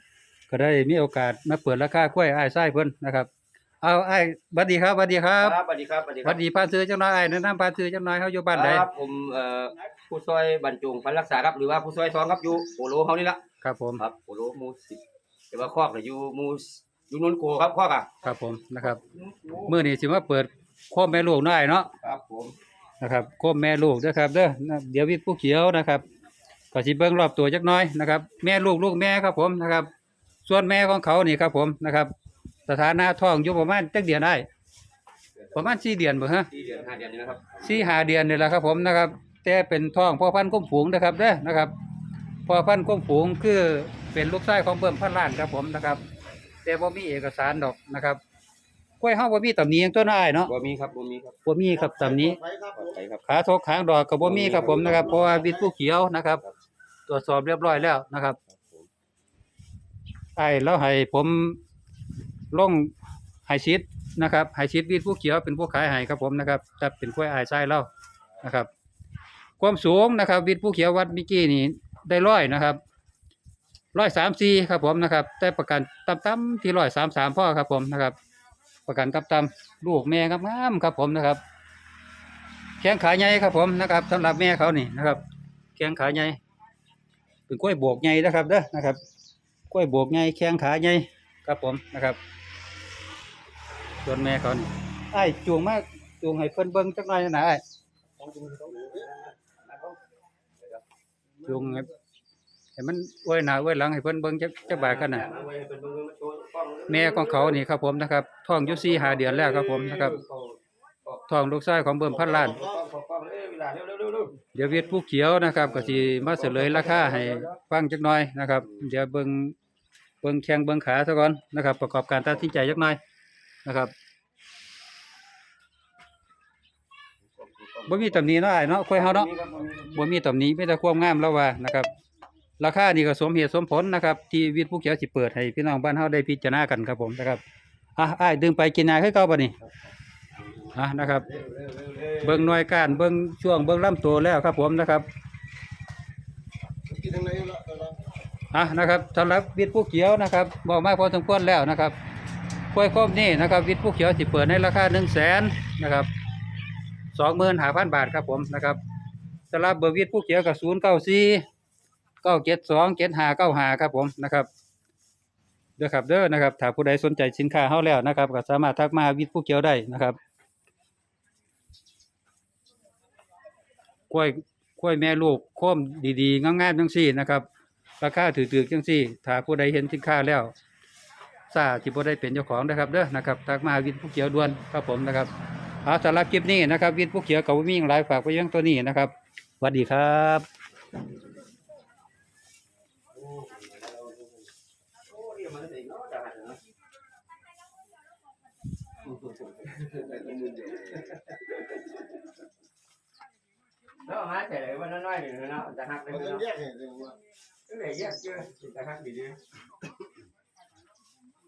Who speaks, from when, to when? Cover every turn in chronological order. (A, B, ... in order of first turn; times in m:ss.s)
0:00.5-0:03.3 A
0:03.8-0:05.6 A
0:05.4-0:06.4 B
0:06.2-0:08.8 A
0:08.5-0:13.4 B
0:13.6-0:14.0 A
0:14.0-0:18.1 B
0:18.2-0:19.0 A
0:19.1-0:19.7 B
0:19.6-0:21.9 A
0:22.0-0:22.6 B
0:23.0-0:26.0 A
0:26.7-0:29.9 A
0:30.4-0:32.1 A
0:32.7-0:34.5 A
0:35.4-0:35.8 B
0:35.5-0:36.5 A
0:36.5-0:37.9 B
0:37.6-0:41.7 A
0:42.5-0:46.0 A
0:46.6-0:48.2 A
0:49.0-0:50.5 A
0:50.5-0:51.4 B
0:51.5-0:52.4 A
0:51.9-0:52.8 C
0:52.7-0:53.2 B
0:53.3-0:56.4 A
0:54.2-0:55.1 B
0:55.0-0:55.5 C
0:57.1-0:58.4 A
0:58.5-0:58.9 B
1:00.4-1:01.6 A
1:02.5-1:02.9 A
1:03.5-1:07.9 A
1:08.4-1:08.7 A
1:09.6-1:12.8 A
1:14.0-1:18.2 A
1:18.9-1:21.4 A
1:22.8-1:25.2 A
1:25.8-1:26.4 A
1:27.5-1:29.0 A
1:29.7-1:32.2 A
1:34.0-1:37.6 A
1:38.2-1:38.8 C
1:38.5-1:40.0 B
1:41.4-1:41.9 A
1:42.8-1:45.3 A
1:44.6-1:47.6 B
1:46.9-1:50.2 A
1:48.6-1:51.2 B
1:51.3-1:52.6 A
1:52.2-1:54.4 B
1:52.4-1:52.8 C
1:54.5-1:59.6 A
1:56.0-1:57.5 B
2:00.2-2:03.0 A
2:03.7-2:03.9 A
2:07.4-2:08.2 B
2:07.9-2:09.3 A
2:08.9-2:10.0 B
2:09.9-2:11.9 A
2:12.6-2:17.4 A
2:18.0-2:19.6 A
2:20.7-2:21.3 A
2:21.6-2:22.4 B
2:22.2-2:25.1 A
2:26.9-2:28.0 C
2:28.5-2:32.0 A
2:32.7-2:36.1 A
2:37.1-2:38.8 A
2:39.5-2:41.4 A
2:42.2-2:44.5 A
2:45.8-2:50.2 A
2:54.1-2:57.4 A
2:58.0-3:00.5 A
3:01.5-3:05.3 A
3:05.8-3:10.5 A
3:13.2-3:14.5 B
3:15.0-3:16.6 B
3:19.0-3:21.8 B
3:24.0-3:26.6 B
3:26.4-3:27.2 C
3:27.7-3:29.4 B